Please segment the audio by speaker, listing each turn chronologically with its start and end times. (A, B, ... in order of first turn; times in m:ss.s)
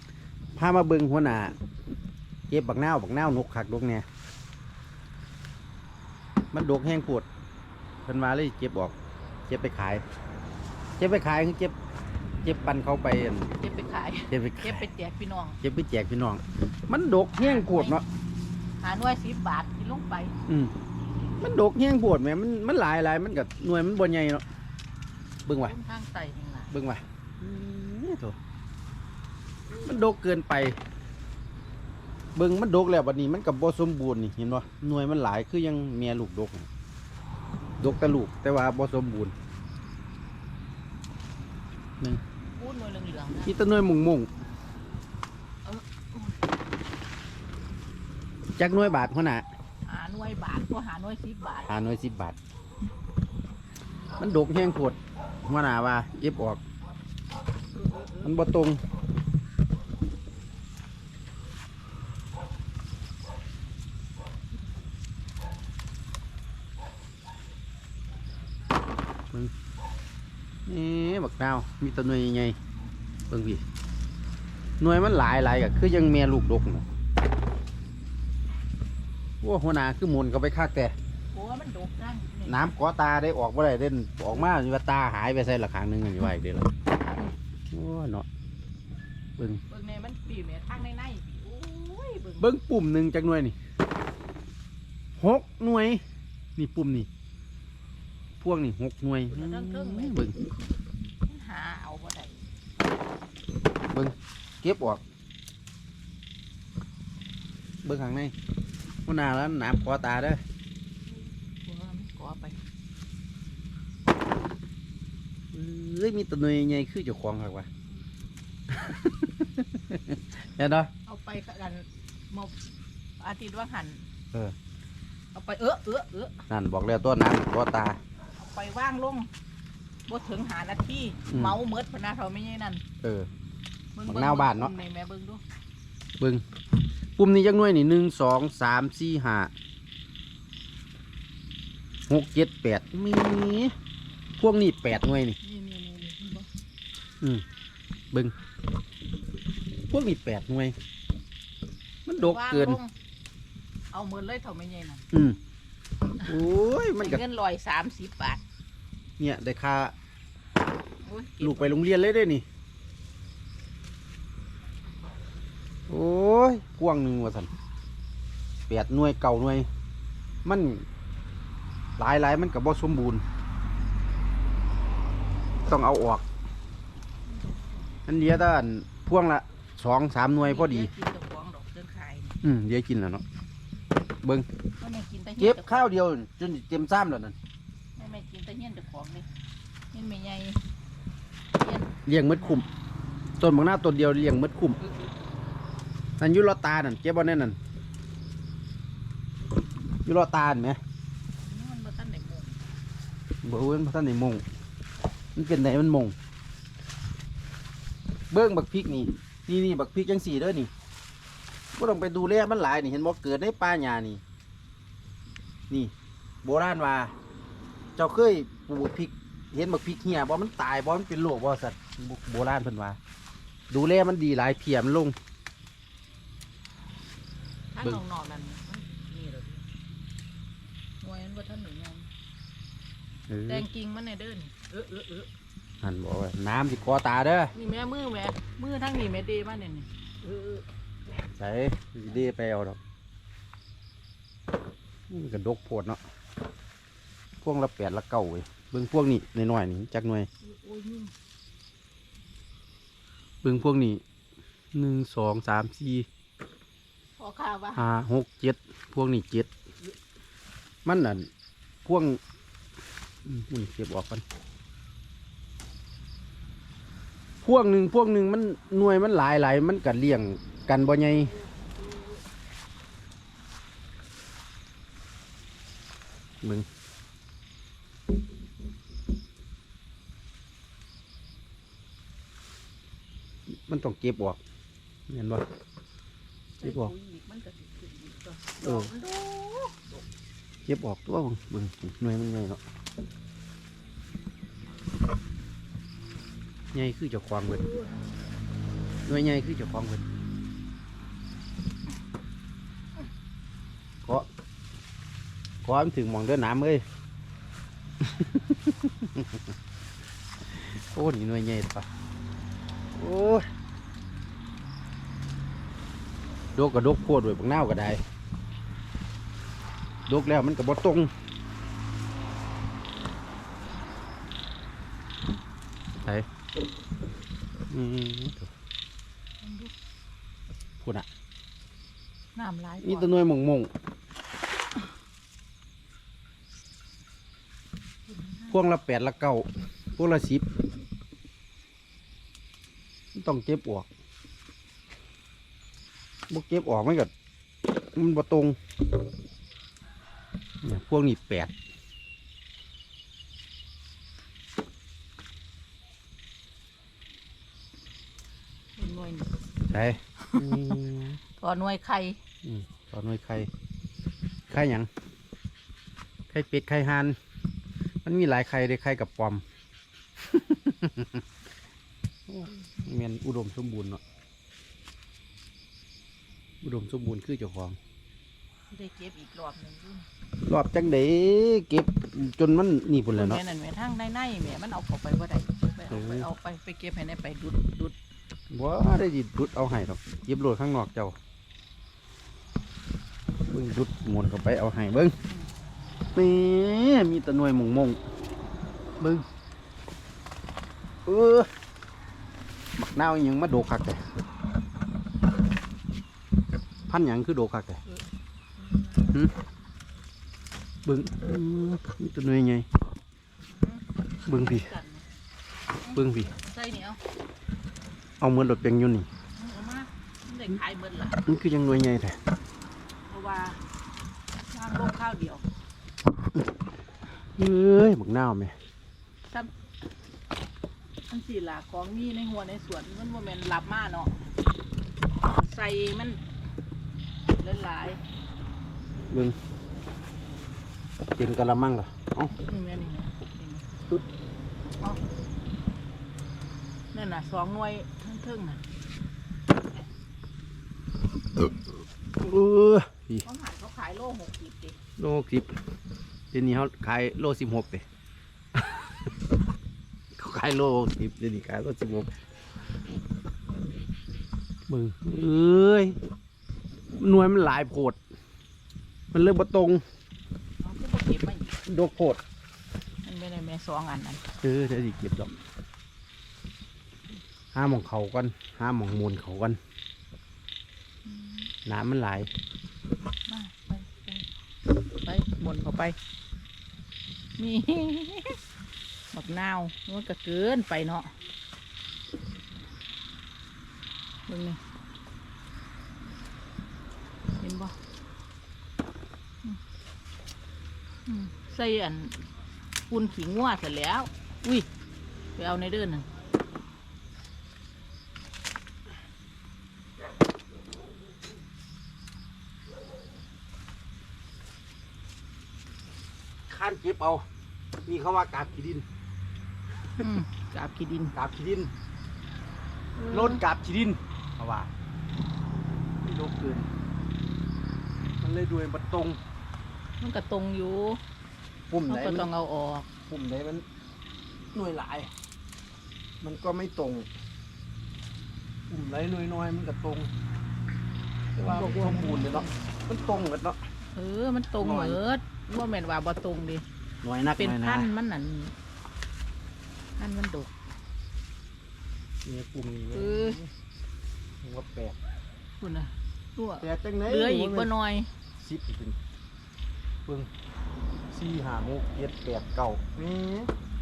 0:00.6-0:01.6 A
0:02.5-0:04.1 A
0:06.5-0:07.3 A
0:08.0-0:08.9 A
0:09.5-0:10.0 A
0:11.0-0:11.8 A
0:12.4-0:13.6 A
0:13.6-0:15.6 B
0:14.3-0:14.9 A
0:15.6-0:18.0 A
0:17.3-0:18.0 B
0:18.8-0:20.4 B
0:20.5-0:20.7 A
0:21.4-0:24.4 A
0:25.5-0:25.8 A
0:25.6-0:26.7 B
0:26.7-0:28.4 A
0:29.7-0:30.0 B
0:29.8-0:30.8 A
0:32.4-0:36.7 A
0:37.8-0:39.4 A
0:42.6-0:43.6 B
0:43.4-0:44.3 A
0:45.6-0:46.4 B
0:48.6-0:49.4 A
0:49.8-0:51.7 B
0:51.6-0:52.4 A
0:54.2-0:56.6 A
0:58.2-0:58.8 A
1:10.7-1:12.6 A
1:13.3-1:13.6 A
1:14.8-1:16.8 A
1:19.4-1:21.0 A
1:21.3-1:22.7 B
1:22.5-1:26.7 A
1:27.7-1:28.3 A
1:29.4-1:29.6 A
1:29.7-1:32.5 B
1:32.4-1:33.6 A
1:35.2-1:36.0 A
1:36.6-1:37.1 A
1:38.4-1:40.4 A
1:39.3-1:40.2 B
1:41.3-1:42.4 B
1:43.9-1:45.0 A
1:47.8-1:48.3 A
1:49.1-1:50.4 A
1:51.6-1:52.6 B
1:55.5-1:57.7 A
1:58.7-2:00.9 A
2:01.1-2:02.6 B
2:03.2-2:04.0 B
2:05.3-2:06.4 B
2:06.5-2:08.0 A
2:08.4-2:09.3 B
2:10.1-2:12.8 B
2:11.3-2:11.6 A
2:13.0-2:13.3 A
2:14.0-2:15.4 B
2:14.0-2:14.7 A
2:17.2-2:19.5 A
2:22.1-2:23.7 A
2:24.4-2:25.4 A
2:25.1-2:26.5 B
2:29.9-2:30.8 A
2:32.1-2:32.8 A
2:32.1-2:32.9 B
2:33.9-2:35.0 B
2:35.1-2:35.4 A
2:36.2-2:37.2 A
2:37.0-2:38.4 B
2:39.2-2:39.9 A
2:41.0-2:41.8 B
2:41.4-2:42.4 A
2:45.9-2:47.5 A
2:48.7-2:49.7 A
2:50.4-2:50.9 A
2:52.0-2:53.2 A
2:55.7-2:56.2 A
2:58.1-3:00.9 A
3:00.4-3:02.4 B
3:02.4-3:03.2 A
3:04.8-3:06.0 B
3:05.4-3:07.4 A
3:08.0-3:09.3 B
3:09.9-3:10.6 B
3:11.6-3:12.6 B
3:12.0-3:12.7 A
3:13.4-3:14.8 A
3:16.2-3:17.6 A
3:20.0-3:20.8 A
3:21.4-3:22.6 B
3:23.4-3:24.4 A
3:25.4-3:26.2 A
3:28.3-3:30.7 A
3:31.8-3:34.2 A
3:35.7-3:37.1 A
3:38.0-3:43.0 A
3:43.7-3:45.2 A
3:47.7-3:49.6 B
3:51.0-3:52.1 B
3:53.3-3:53.7 A
3:53.5-3:55.3 B
3:55.8-3:57.5 A
3:57.5-4:00.6 B
4:01.4-4:02.8 A
4:05.1-4:06.0 A
4:07.4-4:10.3 A
4:10.4-4:11.1 B
4:13.4-4:14.0 A
4:14.7-4:16.1 A
4:17.2-4:17.9 B
4:17.8-4:19.5 A
4:20.8-4:21.3 A
4:21.8-4:22.2 A
4:23.2-4:24.2 A
4:27.4-4:31.4 A
4:36.4-4:36.7 A
4:43.5-4:44.4 A
4:45.1-4:45.4 A
4:46.6-4:50.0 B
4:46.6-4:46.9 A
4:48.6-4:48.9 A
4:50.7-4:52.6 A
4:56.7-4:57.7 A
4:59.1-5:00.1 A
5:05.6-5:06.8 A
5:08.0-5:09.4 A
5:10.5-5:11.9 A
5:12.9-5:13.5 A
5:16.5-5:18.0 A
5:20.1-5:21.1 A
5:27.7-5:28.5 A
5:29.4-5:29.7 B
5:30.8-5:31.1 A
5:32.4-5:33.1 B
5:32.8-5:33.7 A
5:38.1-5:38.6 B
5:38.5-5:40.5 A
5:43.1-5:43.9 A
5:46.3-5:47.1 A
5:48.0-5:48.6 A
5:50.6-5:51.5 A
5:58.8-5:59.3 B
5:59.7-6:01.2 A
6:00.2-6:00.7 B
6:01.3-6:02.2 B
6:02.4-6:03.5 A
6:04.5-6:04.9 A
6:06.3-6:07.2 A
6:08.0-6:09.4 A
6:10.2-6:11.2 A
6:12.3-6:14.0 A
6:16.6-6:17.8 A
6:18.7-6:20.1 B
6:20.4-6:23.4 A
6:23.1-6:28.0 B
6:25.9-6:26.3 A
6:28.5-6:31.2 A
6:33.5-6:35.2 A
6:36.2-6:38.0 A
6:39.0-6:39.3 A
6:41.1-6:41.5 A
6:42.8-6:44.0 A
6:46.9-6:47.8 A
6:48.6-6:49.1 B
6:49.1-6:49.3 A
6:50.8-6:52.7 A
6:53.5-6:55.1 B
6:54.3-6:54.7 A
6:55.8-6:57.0 B
6:55.9-6:56.4 A
6:58.2-6:59.1 A
6:59.4-7:01.2 B
7:01.2-7:02.2 A
7:03.1-7:03.6 B
7:04.5-7:05.4 B
7:07.4-7:08.6 A
7:09.2-7:09.5 B
7:11.1-7:14.2 B
7:15.2-7:16.2 B
7:17.4-7:18.0 B
7:19.1-7:19.4 A
7:21.2-7:22.4 A
7:22.3-7:23.7 B
7:26.9-7:28.6 B
7:32.2-7:33.3 A
7:33.2-7:34.8 B
7:35.0-7:35.5 A
7:36.3-7:37.8 A
7:40.2-7:42.1 A
7:44.7-7:46.0 A
7:47.0-7:48.0 A
7:49.1-7:49.8 A
7:50.6-7:51.6 B
7:51.6-7:52.2 A
7:53.0-7:54.3 B
7:54.4-7:55.3 A
7:57.5-7:59.6 A
8:01.0-8:01.5 B
8:01.6-8:02.3 A
8:03.3-8:04.3 B
8:05.0-8:06.0 B
8:07.4-8:08.4 B
8:09.1-8:11.1 B
8:14.3-8:14.6 B
8:17.4-8:17.8 B
8:21.1-8:22.3 B
8:22.9-8:24.7 B
8:25.4-8:26.1 B
8:36.5-8:37.3 A
8:37.9-8:38.9 A
8:40.0-8:41.2 B
8:41.2-8:41.7 A
8:43.0-8:43.5 B
8:43.0-8:44.7 A
8:46.0-8:46.7 A
8:48.2-8:49.2 A
8:50.0-8:51.0 B
8:51.7-8:52.3 A
8:51.9-8:52.9 B
8:53.0-8:53.6 A
8:54.5-8:55.1 A
8:56.2-8:57.1 A
8:58.7-9:00.1 A
9:01.4-9:03.6 A
9:01.5-9:02.5 B
9:04.0-9:06.6 B
9:04.6-9:05.0 A
9:07.0-9:08.0 A
9:07.3-9:08.5 B
9:10.0-9:10.5 B
9:12.2-9:13.5 A
9:12.9-9:13.4 B
9:14.4-9:15.0 A
9:15.6-9:18.1 B
9:16.6-9:17.7 A
9:18.3-9:19.0 A
9:21.1-9:23.5 A